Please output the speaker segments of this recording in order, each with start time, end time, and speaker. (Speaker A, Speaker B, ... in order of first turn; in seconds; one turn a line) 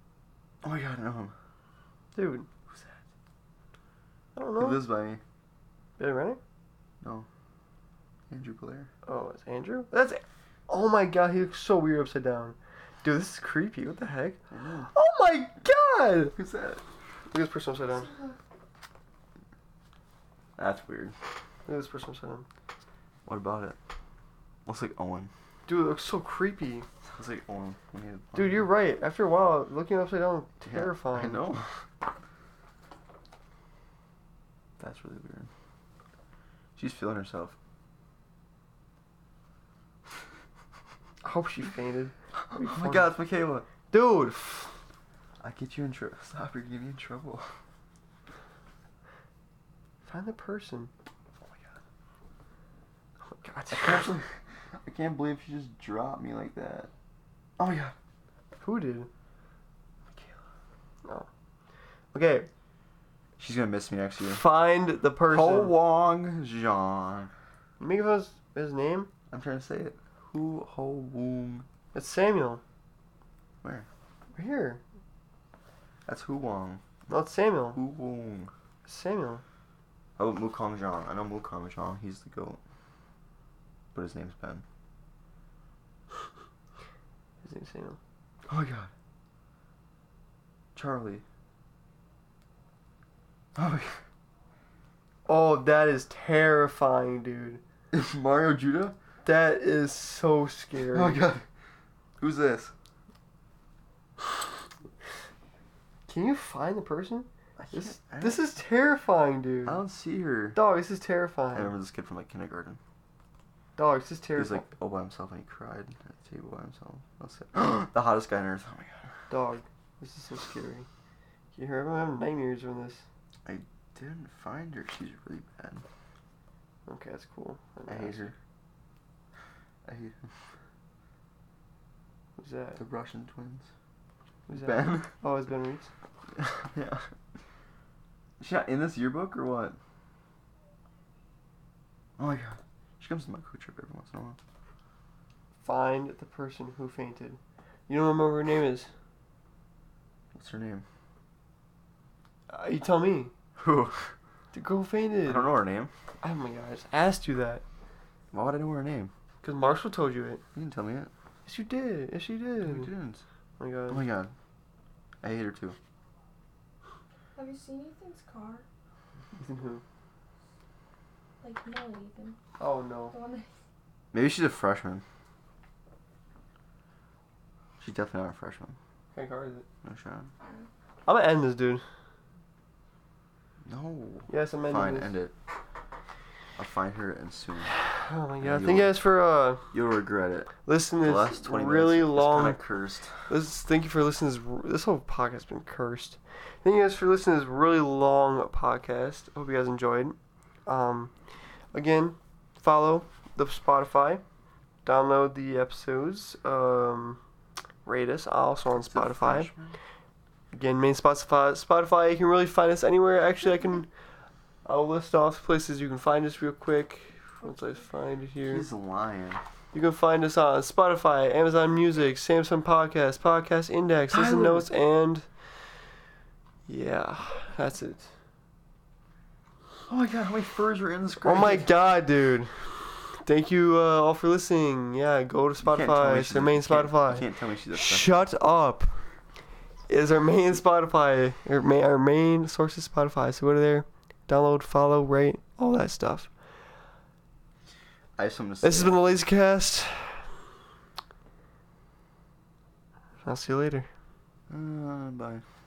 Speaker A: 0.6-1.3
Speaker B: 2.1-2.5
Speaker B: 4.4-4.8
Speaker A: 4.6-5.2
Speaker B: 6.0-6.4
Speaker A: 7.0-7.3
Speaker A: 8.3-8.9
Speaker B: 9.1-16.4
Speaker A: 14.5-14.9
Speaker A: 16.4-16.8
Speaker B: 17.3-18.1
Speaker C: 17.9-18.4
Speaker A: 20.6-21.1
Speaker B: 21.7-22.5
Speaker A: 23.3-23.8
Speaker A: 24.7-25.3
Speaker B: 25.7-26.9
Speaker A: 27.1-28.7
Speaker B: 28.3-31.4
Speaker A: 30.6-31.7
Speaker A: 34.8-35.5
Speaker A: 36.8-37.6
Speaker B: 41.2-43.2
Speaker A: 42.5-43.7
Speaker B: 43.9-44.7
Speaker A: 45.4-47.5
Speaker B: 50.0-50.9
Speaker B: 53.2-54.1
Speaker A: 53.7-56.9
Speaker A: 57.6-58.0
Speaker B: 58.6-59.1
Speaker B: 62.1-62.5
Speaker A: 63.4-64.4
Speaker B: 64.3-65.7
Speaker A: 65.3-67.3
Speaker B: 67.8-69.1
Speaker A: 69.3-71.7
Speaker B: 71.9-72.6
Speaker A: 73.6-73.9
Speaker B: 74.3-74.8
Speaker A: 76.1-76.8
Speaker B: 77.1-77.8
Speaker A: 77.7-78.5
Speaker B: 78.8-79.4
Speaker A: 80.2-82.6
Speaker A: 83.9-84.6
Speaker B: 87.4-88.0
Speaker A: 88.5-88.9
Speaker A: 90.7-91.2
Speaker A: 93.5-94.0
Speaker B: 95.3-97.6
Speaker A: 97.9-99.0
Speaker B: 99.2-101.2
Speaker A: 100.9-101.4
Speaker A: 102.2-102.7
Speaker B: 106.1-109.8
Speaker A: 107.6-108.5
Speaker A: 109.6-110.6
Speaker B: 110.5-111.7
Speaker A: 111.5-112.8
Speaker B: 113.8-114.7
Speaker A: 114.4-119.1
Speaker B: 119.3-120.9
Speaker B: 121.5-123.0
Speaker A: 123.5-125.8
Speaker B: 126.9-128.3
Speaker A: 127.9-128.4
Speaker A: 129.8-130.3
Speaker B: 132.4-132.8
Speaker A: 132.7-133.7
Speaker B: 134.5-135.9
Speaker A: 134.5-135.1
Speaker A: 136.4-137.1
Speaker A: 138.4-139.8
Speaker A: 142.2-144.4
Speaker B: 145.6-148.9
Speaker A: 150.3-150.8
Speaker B: 152.5-153.3
Speaker A: 153.6-154.1
Speaker B: 154.5-155.5
Speaker A: 155.3-155.9
Speaker B: 156.2-157.6
Speaker A: 158.3-159.1
Speaker B: 159.4-160.4
Speaker A: 160.6-161.1
Speaker B: 161.4-162.9
Speaker A: 162.6-163.2
Speaker B: 163.6-164.1
Speaker A: 163.9-164.3
Speaker A: 165.2-165.8
Speaker C: 167.3-168.6
Speaker B: 169.4-169.8
Speaker C: 171.4-172.4
Speaker B: 172.6-173.2
Speaker C: 173.1-173.5
Speaker A: 174.1-175.0
Speaker A: 177.8-178.8
Speaker B: 179.1-179.7
Speaker A: 179.8-180.3
Speaker C: 180.4-180.7
Speaker B: 181.1-181.8
Speaker A: 183.6-185.3
Speaker B: 184.3-185.1
Speaker A: 186.6-187.7
Speaker B: 187.9-189.7
Speaker A: 188.4-189.0
Speaker A: 189.7-193.2
Speaker B: 190.6-192.6
Speaker B: 193.3-201.1
Speaker B: 201.7-204.2
Speaker B: 204.8-207.2
Speaker B: 207.8-209.5
Speaker A: 208.7-209.8
Speaker B: 210.5-213.9
Speaker B: 214.6-218.7
Speaker A: 218.4-219.4
Speaker B: 219.7-225.3
Speaker A: 224.1-224.7
Speaker B: 226.7-228.1
Speaker A: 229.9-231.7
Speaker B: 231.2-239.0
Speaker A: 235.6-238.2
Speaker B: 239.9-246.3
Speaker A: 248.2-249.2
Speaker B: 248.6-250.3
Speaker B: 253.2-253.9
Speaker A: 254.5-255.4